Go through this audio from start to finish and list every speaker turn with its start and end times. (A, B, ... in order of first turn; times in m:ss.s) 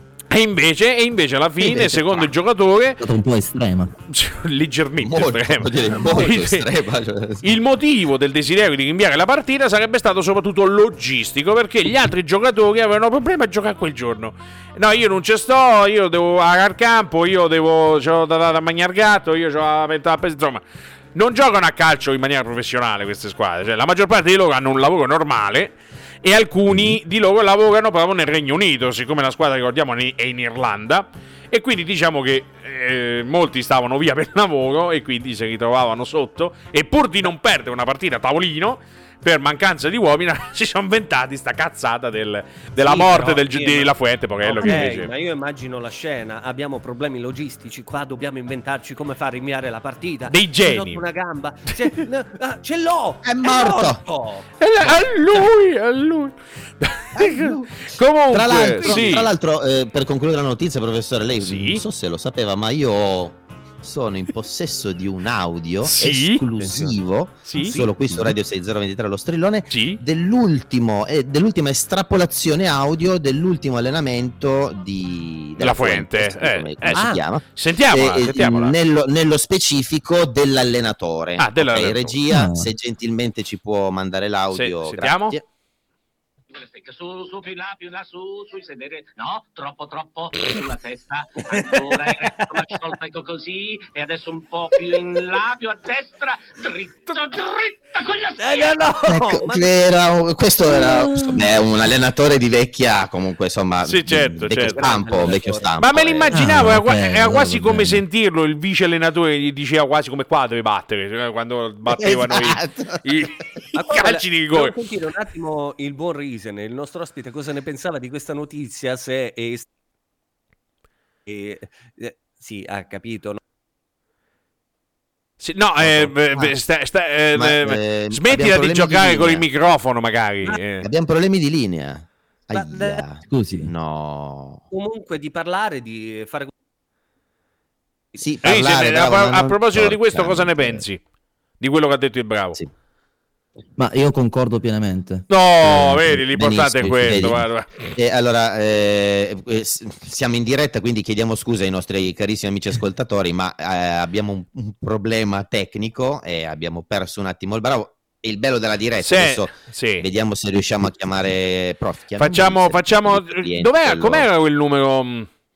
0:00.3-0:03.0 A
0:01.6-0:02.3 B
0:03.0-0:03.9 C
0:04.1-0:06.7 A
0:05.0-0:07.6 B
0:07.4-0:20.6 A
0:21.1-0:45.1 A
0:42.8-0:54.5 D
0:50.3-0:51.0 A
0:53.2-0:54.0 B
0:54.6-0:59.3 A
0:57.2-1:25.4 B
0:58.8-0:59.3 D
1:01.4-1:01.8 A
1:05.8-1:06.4 A
1:06.5-1:07.0 D
1:07.5-1:07.8 A
1:07.5-1:07.9 D
1:09.7-1:10.0 A
1:15.6-1:18.8 A
1:16.9-1:17.2 D
1:21.4-1:22.2 A
1:22.3-1:22.7 C
1:24.5-1:25.4 A
1:26.5-1:38.8 E
1:31.5-1:32.8 D
1:38.4-1:39.7 D
1:39.1-1:46.4 B
1:40.7-1:41.5 C
1:43.8-1:45.1 A
1:44.6-1:45.7 D
1:45.8-1:54.8 A
1:46.3-1:48.0 C
1:51.9-1:53.3 B
1:53.8-1:59.7 D
2:01.3-2:03.4 D
2:05.4-2:10.9 A
2:05.8-2:06.5 B
2:07.3-2:09.5 B
2:10.8-2:14.6 B
2:12.5-2:13.0 D
2:13.3-2:13.7 C
2:14.7-2:16.5 D
2:18.2-2:20.8 B
2:18.4-2:21.0 A
2:21.6-2:22.6 A
2:23.8-2:26.2 C
2:25.3-2:27.7 A
2:26.3-2:44.3 B
2:39.0-2:40.0 A
2:42.2-2:45.3 A